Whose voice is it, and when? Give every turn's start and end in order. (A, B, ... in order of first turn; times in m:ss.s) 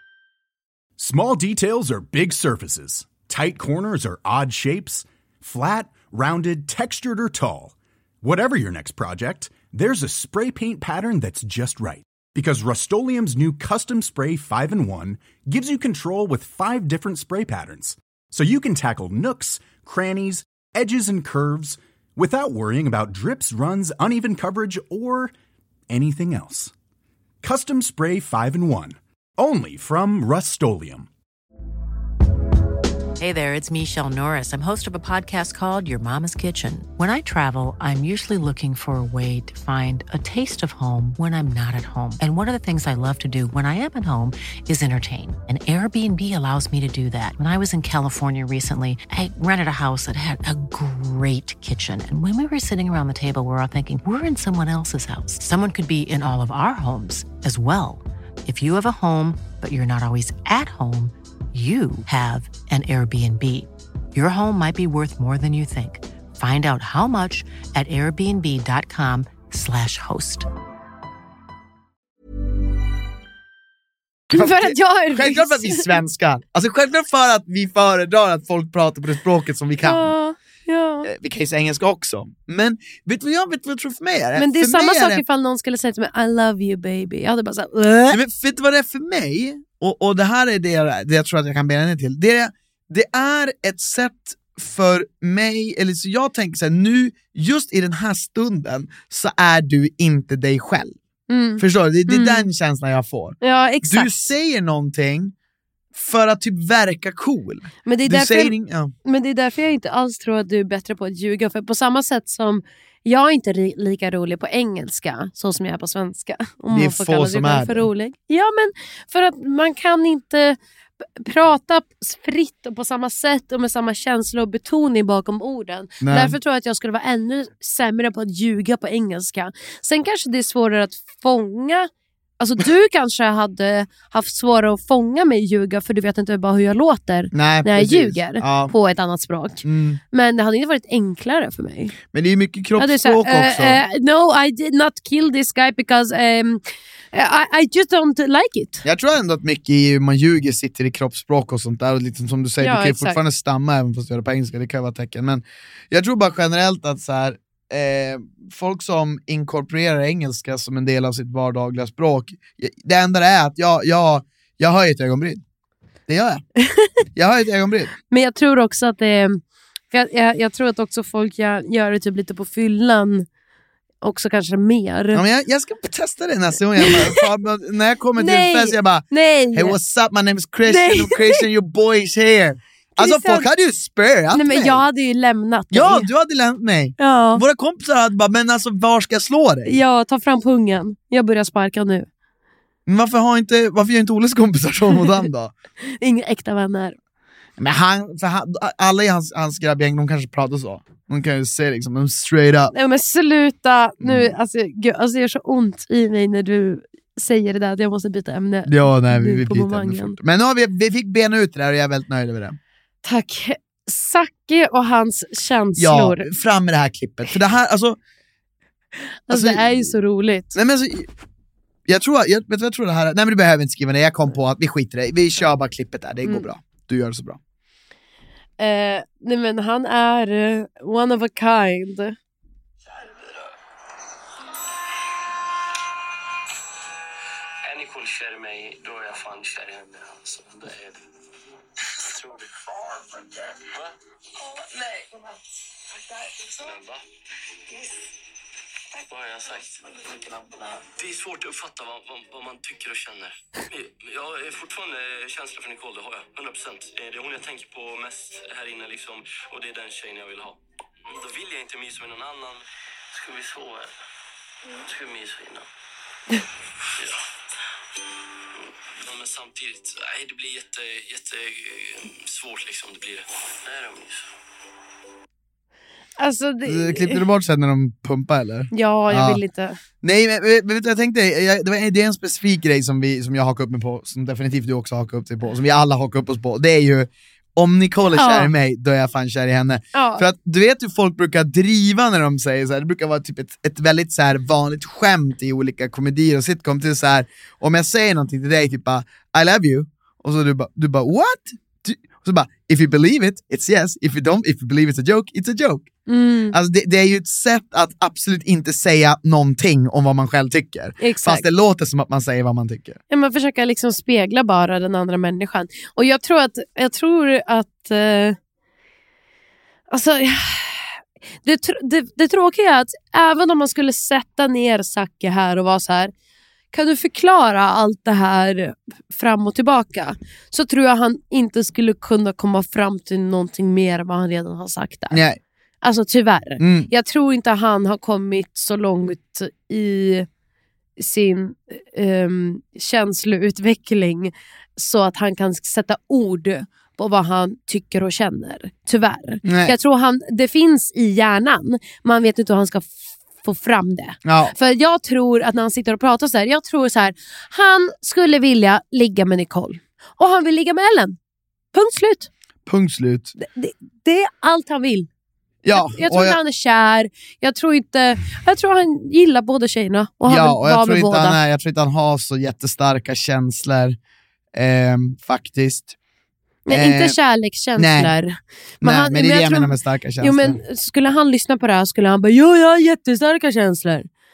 0:01.0-0:25.3 A
0:25.9-0:26.7 A
0:27.4-0:31.1 A
0:33.2-1:10.5 B
1:14.3-1:16.0 C
1:14.3-1:20.1 D
1:19.8-1:21.1 C
1:21.0-1:25.2 D
1:24.4-1:28.2 C
1:28.1-1:41.0 D
1:41.3-1:42.5 C
1:41.6-1:45.3 D
1:43.4-1:44.3 C
1:45.9-1:48.9 D
1:47.8-2:00.6 C
1:56.7-1:57.9 D
2:01.2-2:21.9 C
2:06.0-2:06.4 D
2:17.3-2:18.7 D
2:19.6-2:20.0 D
2:22.1-2:23.8 D
2:22.8-2:26.6 C
2:27.1-2:28.8 C
2:28.8-2:45.4 D
2:32.6-2:33.2 C
2:46.1-2:46.4 D
2:47.1-2:47.9 D
2:48.1-2:49.4 C
2:49.9-2:53.2 C
2:54.0-2:55.2 C
2:55.1-3:04.8 D
2:56.8-2:57.2 C
2:58.2-2:59.8 C
3:00.6-3:01.5 C
3:03.0-3:03.5 C
3:04.3-3:06.1 C
3:05.7-3:09.8 D
3:07.0-3:07.4 C
3:09.6-3:12.1 C
3:12.8-3:15.5 D
3:15.8-3:17.0 C
3:17.6-3:22.7 D
3:22.7-3:30.2 C
3:24.0-3:24.3 D
3:28.6-3:32.6 D
3:33.0-3:36.2 C
3:35.8-3:38.0 D
3:39.3-3:40.6 C
3:39.3-3:39.9 D
3:40.5-3:41.1 D
3:41.9-3:47.4 D
3:48.6-3:52.2 C
3:57.6-4:01.0 E
4:02.0-4:02.5 E
4:03.6-4:03.9 E
4:06.5-4:07.0 E
4:09.0-4:23.9 E
4:24.8-4:25.7 E
4:26.9-4:27.2 E
4:28.6-4:34.3 E
4:36.2-4:37.2 C
4:36.6-4:39.4 D
4:38.7-4:39.8 C
4:40.0-5:05.9 D
4:48.1-4:48.5 C
4:49.9-4:50.2 C
5:06.1-5:06.6 C
5:06.5-5:13.0 D
5:11.0-5:11.5 C
5:13.1-5:18.4 C
5:19.9-5:26.1 C
5:26.7-5:35.2 C
5:35.1-5:35.4 D
5:35.8-5:40.3 C
5:36.6-5:36.9 D
5:41.0-6:01.2 C
5:49.4-5:49.8 D
5:54.2-5:54.5 D
6:01.7-6:02.3 C
6:02.6-6:03.3 D
6:03.4-6:05.1 C
6:05.6-6:06.4 D
6:05.7-6:11.4 C
6:10.2-6:14.0 D
6:14.5-6:16.0 D
6:16.7-6:24.1 C
6:16.7-6:17.2 D
6:17.8-6:18.1 D
6:18.8-6:20.6 D